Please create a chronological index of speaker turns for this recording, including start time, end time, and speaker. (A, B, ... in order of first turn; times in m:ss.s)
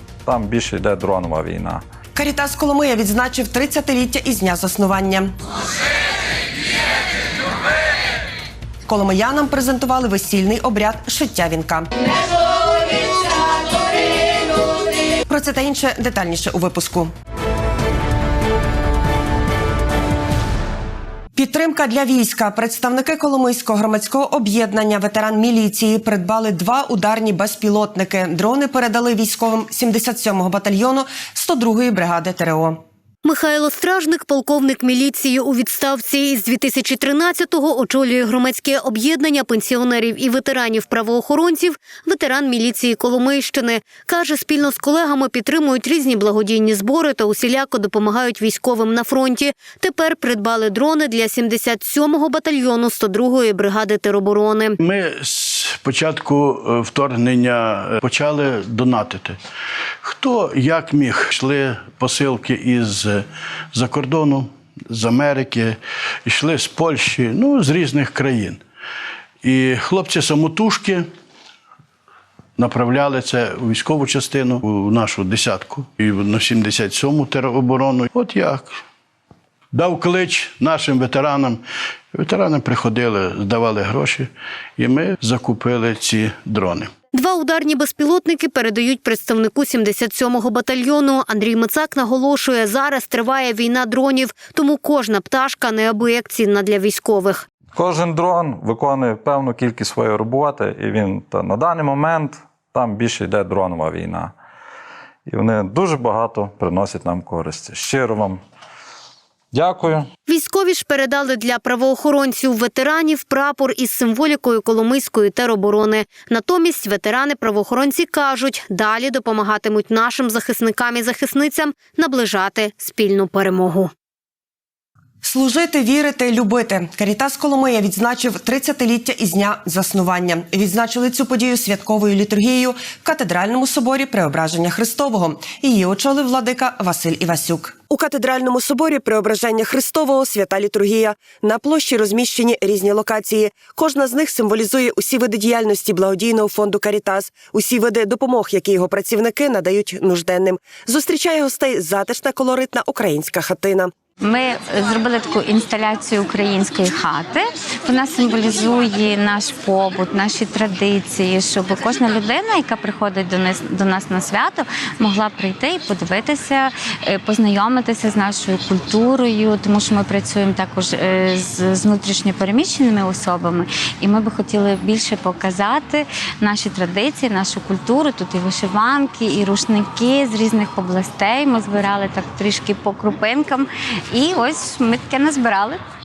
0:00.3-0:01.8 A
0:02.2-0:05.3 B
0:08.9-0:11.9 B
0:15.3-0:17.1 B
0:21.4-0:32.8 B
0:33.2-0:54.8 C
0:54.8-0:59.4 D
1:00.0-1:08.6 D
1:09.4-1:11.1 D
1:12.6-1:18.8 D
1:19.7-1:21.6 D
1:22.1-1:26.9 D
1:27.1-1:37.4 C
1:37.8-1:44.3 A
1:45.3-1:48.4 A
1:49.5-1:50.1 A
1:50.3-2:03.9 C
2:05.2-2:33.9 B
2:34.2-3:05.8 E